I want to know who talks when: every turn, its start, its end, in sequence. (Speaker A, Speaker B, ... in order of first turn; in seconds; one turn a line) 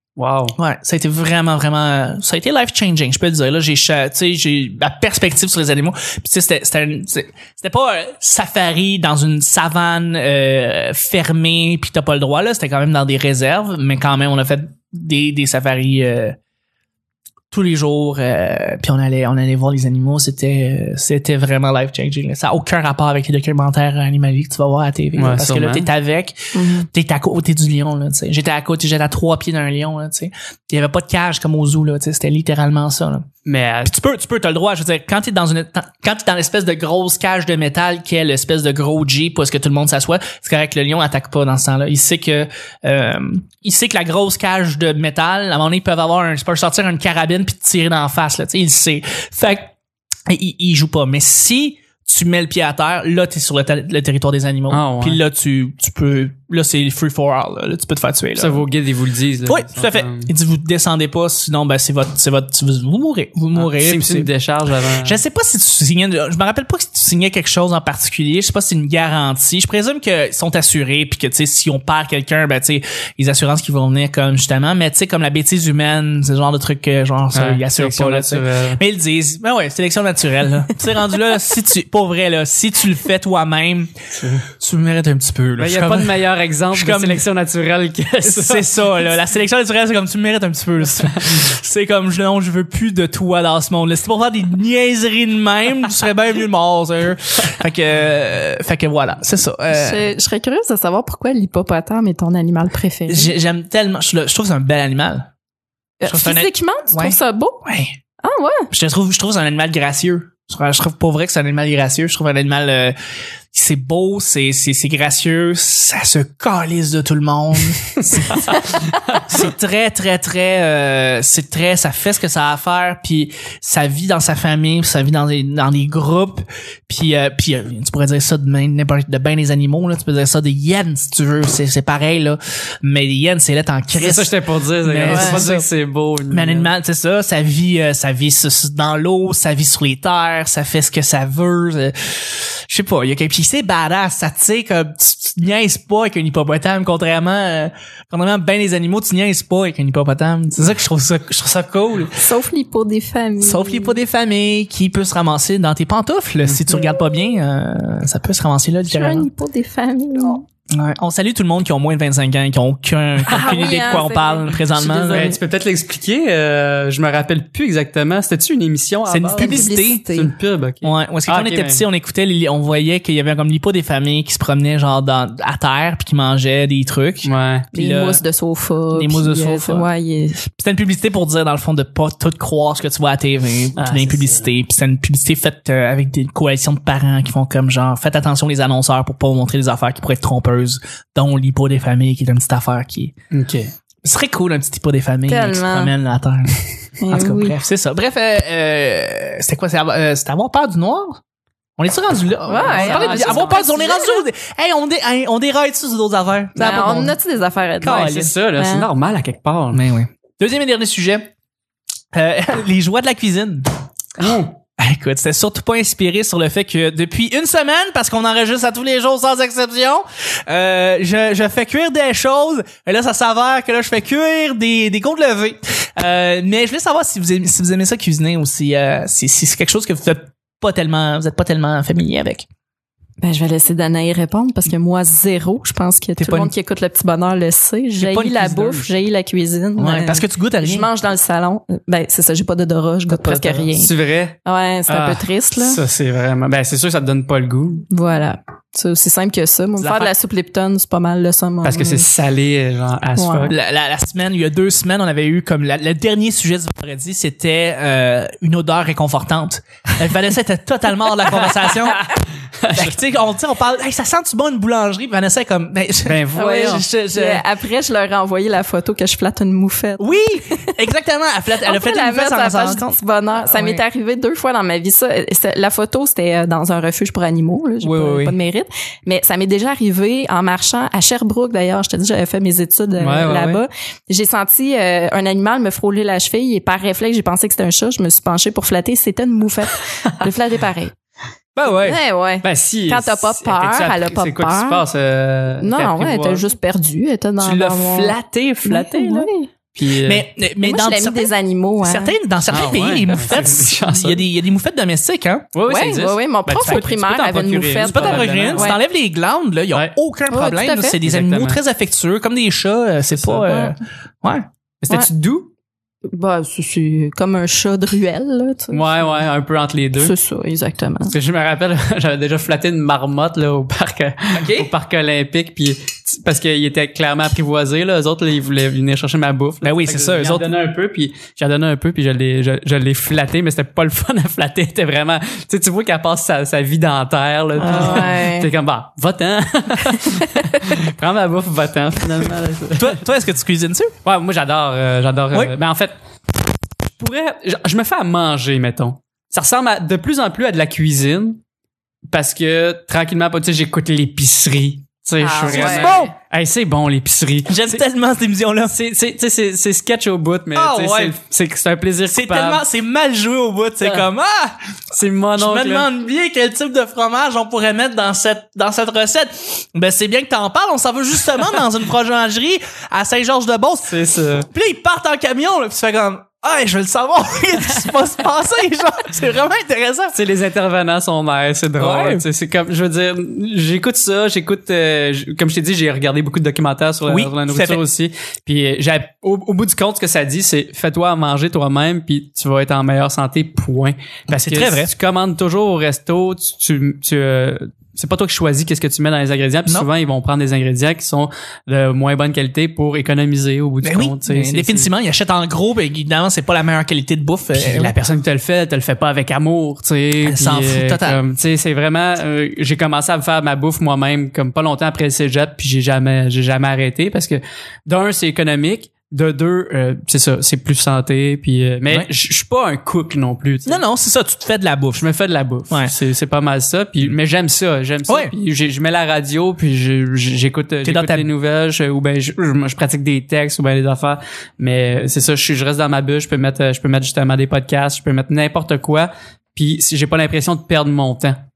Speaker A: 0.2-0.6
Speaker B: 0.6-16.4
Speaker B: 17.5-33.3
Speaker A: 25.2-25.9
Speaker C: 26.5-26.9
Speaker A: 33.5-33.9
Speaker B: 33.9-49.7
Speaker B: 50.3-58.6
Speaker A: 54.7-55.2
Speaker A: 58.4-60.3
Speaker B: 59.4-64.3
Speaker A: 63.5-65.2
Speaker B: 65.0-83.9
Speaker A: 77.3-78.8
Speaker A: 84.2-84.4
Speaker B: 84.5-86.2
Speaker A: 85.6-89.0
Speaker B: 86.7-87.2
Speaker B: 88.2-100.1
Speaker C: 99.7-103.3
Speaker B: 103.1-105.3
Speaker C: 106.0-107.6
Speaker B: 106.1-108.0
Speaker C: 108.2-108.7
Speaker B: 108.7-113.0
Speaker B: 113.5-118.6
Speaker A: 118.0-119.5
Speaker B: 119.2-135.7
Speaker A: 133.9-136.7
Speaker C: 135.1-135.4
Speaker B: 136.3-152.2
Speaker C: 152.2-154.0
Speaker B: 153.4-159.3
Speaker A: 156.4-156.8
Speaker C: 158.9-160.4
Speaker B: 160.7-165.3
Speaker C: 163.3-165.4
Speaker A: 163.3-163.5
Speaker A: 165.0-171.8
Speaker B: 169.1-170.1
Speaker C: 169.4-170.3
Speaker B: 170.8-178.2
Speaker A: 177.2-177.7
Speaker C: 177.7-180.4
Speaker B: 178.9-179.9
Speaker B: 180.5-193.1
Speaker A: 183.8-184.5
Speaker A: 193.3-193.7
Speaker B: 194.0-201.2
Speaker C: 195.3-195.9
Speaker C: 197.0-197.6
Speaker B: 201.8-207.2
Speaker C: 202.5-204.3
Speaker A: 202.6-203.6
Speaker C: 206.6-208.9
Speaker B: 207.8-208.3
Speaker A: 207.8-209.8
Speaker B: 209.7-211.2
Speaker B: 212.1-213.7
Speaker A: 214.2-214.5
Speaker B: 214.2-232.5
Speaker C: 233.2-243.9
Speaker B: 236.2-236.5
Speaker A: 238.0-238.9
Speaker B: 239.8-240.9
Speaker A: 243.1-244.4
Speaker C: 244.4-245.8
Speaker A: 244.9-247.8
Speaker C: 247.9-252.1
Speaker B: 249.8-250.1
Speaker A: 251.6-253.6
Speaker C: 253.2-253.5
Speaker B: 253.5-262.1
Speaker A: 261.4-262.1
Speaker A: 262.6-262.9
Speaker B: 262.7-267.4
Speaker A: 266.1-266.9
Speaker C: 266.4-270.7
Speaker B: 270.0-273.8
Speaker C: 271.6-290.9
Speaker A: 277.8-278.4
Speaker A: 283.0-283.6
Speaker B: 291.6-292.0
Speaker A: 291.6-291.9
Speaker C: 291.8-294.8
Speaker A: 292.4-296.5
Speaker C: 295.6-299.5
Speaker A: 297.4-300.3
Speaker B: 300.0-305.5
Speaker C: 300.6-302.2
Speaker A: 302.5-304.2
Speaker A: 305.5-308.8
Speaker C: 305.6-308.8
Speaker B: 306.6-306.9
Speaker B: 307.8-314.5
Speaker C: 310.3-311.0
Speaker A: 311.0-311.6
Speaker A: 313.1-313.7
Speaker A: 314.8-315.5
Speaker C: 316.1-319.3
Speaker A: 318.7-320.1
Speaker C: 319.9-321.1
Speaker A: 321.1-343.0
Speaker B: 324.3-324.7
Speaker B: 329.6-330.5
Speaker C: 337.6-338.5
Speaker C: 340.0-340.4
Speaker B: 342.8-343.9
Speaker A: 344.1-345.9
Speaker A: 347.0-351.4
Speaker A: 352.1-357.8
Speaker C: 355.2-356.0
Speaker B: 355.5-356.1
Speaker B: 357.5-358.8
Speaker A: 358.7-362.6
Speaker B: 360.5-361.2
Speaker B: 362.1-364.6
Speaker A: 363.8-364.1
Speaker A: 364.9-365.9
Speaker B: 365.4-373.9
Speaker A: 373.9-374.5
Speaker B: 374.5-380.2
Speaker A: 380.1-404.9
Speaker B: 381.8-382.2
Speaker B: 387.1-387.8
Speaker B: 394.3-394.9
Speaker B: 403.8-408.0
Speaker A: 407.5-423.8
Speaker B: 410.2-411.2
Speaker B: 423.7-425.0
Speaker A: 424.9-441.4
Speaker B: 428.1-428.3
Speaker B: 430.8-431.2